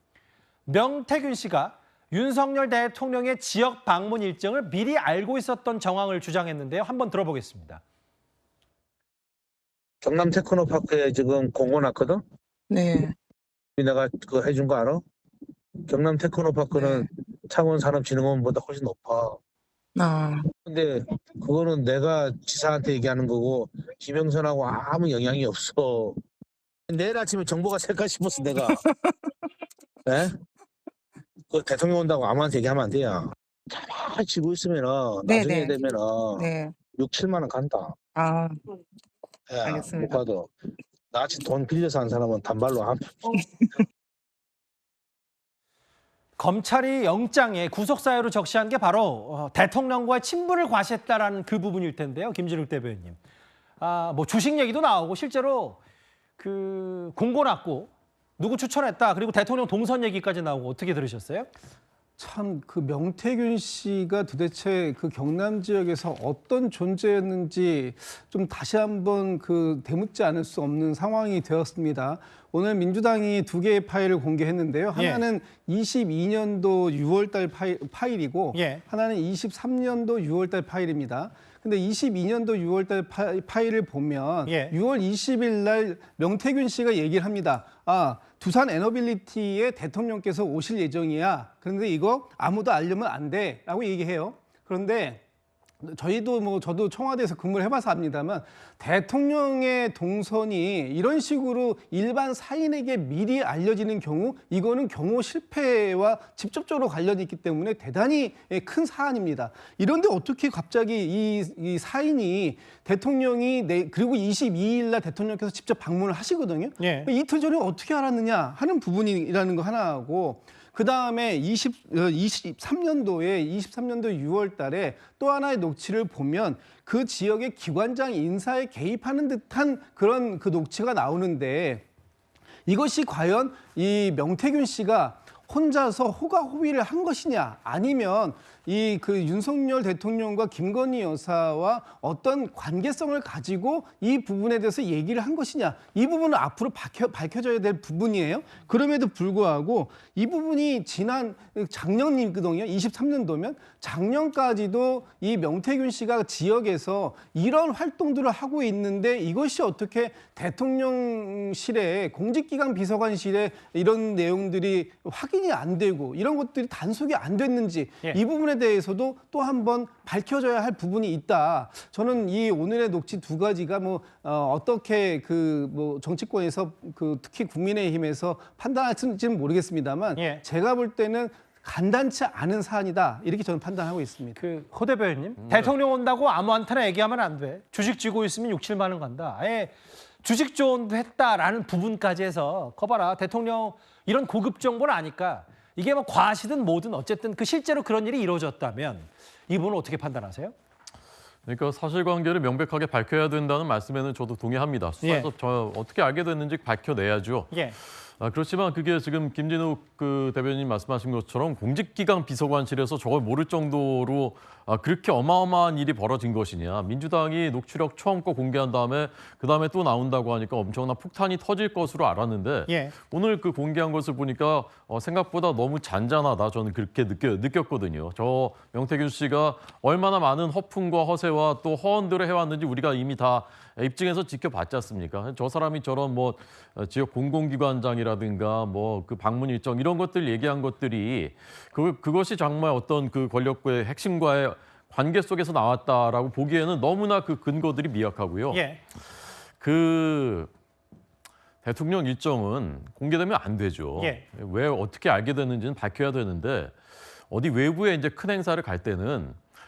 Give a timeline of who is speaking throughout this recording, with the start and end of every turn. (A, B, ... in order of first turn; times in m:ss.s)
0:00.6-0:07.8 A
0:10.0-0:12.2 B
0:12.7-0:13.1 C
0:13.8-0:15.0 B
0:15.8-0:19.4 B
0:16.7-0:17.1 C
0:20.0-0:20.5 C
0:20.6-0:26.2 B
0:26.9-0:28.8 B
0:28.4-0:28.8 C
0:30.0-0:30.3 B
0:31.5-0:38.0 B
0:35.2-0:36.8 C
0:38.1-0:38.6 C
0:39.5-0:40.5 B
0:39.6-0:40.2 C
0:41.1-0:43.3 B
0:46.4-0:53.2 A
0:53.8-0:55.8 A
0:56.4-1:01.5 A
1:02.2-1:35.2 D
1:15.0-1:15.2 A
1:18.5-1:18.8 A
1:24.4-1:24.7 A
1:35.8-2:11.8 D
1:56.8-1:57.1 A
2:12.7-3:04.4 D
3:00.2-3:00.4 A
3:04.4-3:20.5 A
3:05.4-3:05.7 E
3:21.4-3:27.5 E
3:25.0-3:25.3 A
3:27.5-3:27.8 A
3:28.2-4:08.6 E
3:42.7-3:42.9 A
4:08.5-4:08.8 A
4:09.6-4:10.5 E
4:11.6-4:16.7 E
4:14.0-4:14.2 A
4:17.3-4:19.4 E